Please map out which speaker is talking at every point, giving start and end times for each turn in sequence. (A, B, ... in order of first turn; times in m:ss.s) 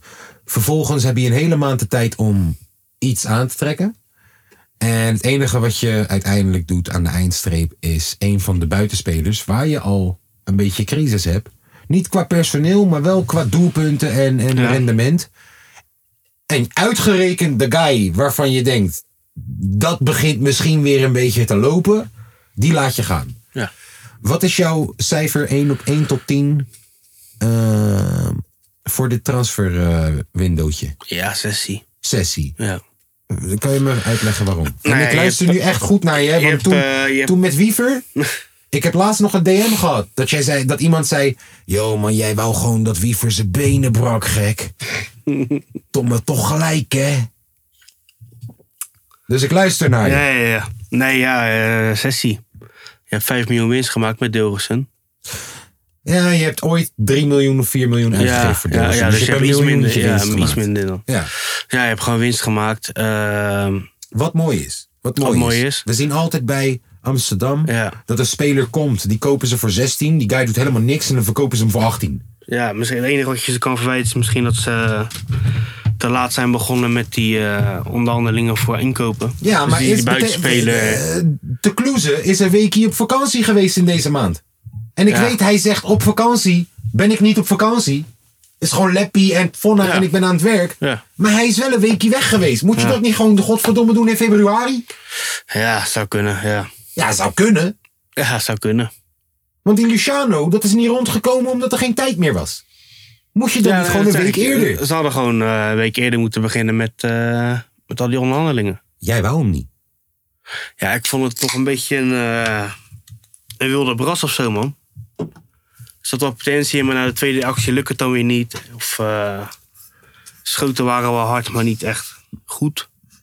0:00.5-0:03.9 A
0:04.8-0:15.3 A
0:14.5-0:14.8 B
0:16.5-0:23.4 A
0:24.2-0:26.7 A
0:27.4-0:30.9 A
0:31.1-0:31.8 B
0:32.0-0:32.5 A
0:33.3-0:38.0 A
0:34.8-0:35.6 B
0:36.2-0:37.3 B
0:38.7-0:44.7 A
0:45.3-0:45.6 B
0:45.9-0:47.3 A
0:49.3-0:50.2 A
0:50.0-0:52.4 B
0:53.1-0:54.9 B
0:56.0-1:01.3 A
0:58.1-1:03.9 B
1:04.1-1:12.2 A
1:05.2-1:05.8 B
1:07.6-1:08.0 B
1:12.5-1:15.1 B
1:16.0-1:21.0 B
1:19.4-1:24.4 A
1:25.0-1:28.1 A
1:25.1-1:25.3 B
1:28.6-1:34.8 A
1:29.8-1:30.1 B
1:35.5-1:36.7 B
1:37.0-1:37.7 A
1:38.2-1:38.9 B
1:39.6-1:42.6 A
1:43.3-1:44.8 A
1:43.6-1:48.8 B
1:49.0-1:49.7 A
1:50.8-1:52.7 B
1:53.6-1:54.8 B
1:56.0-1:59.5 B
2:00.4-2:02.9 B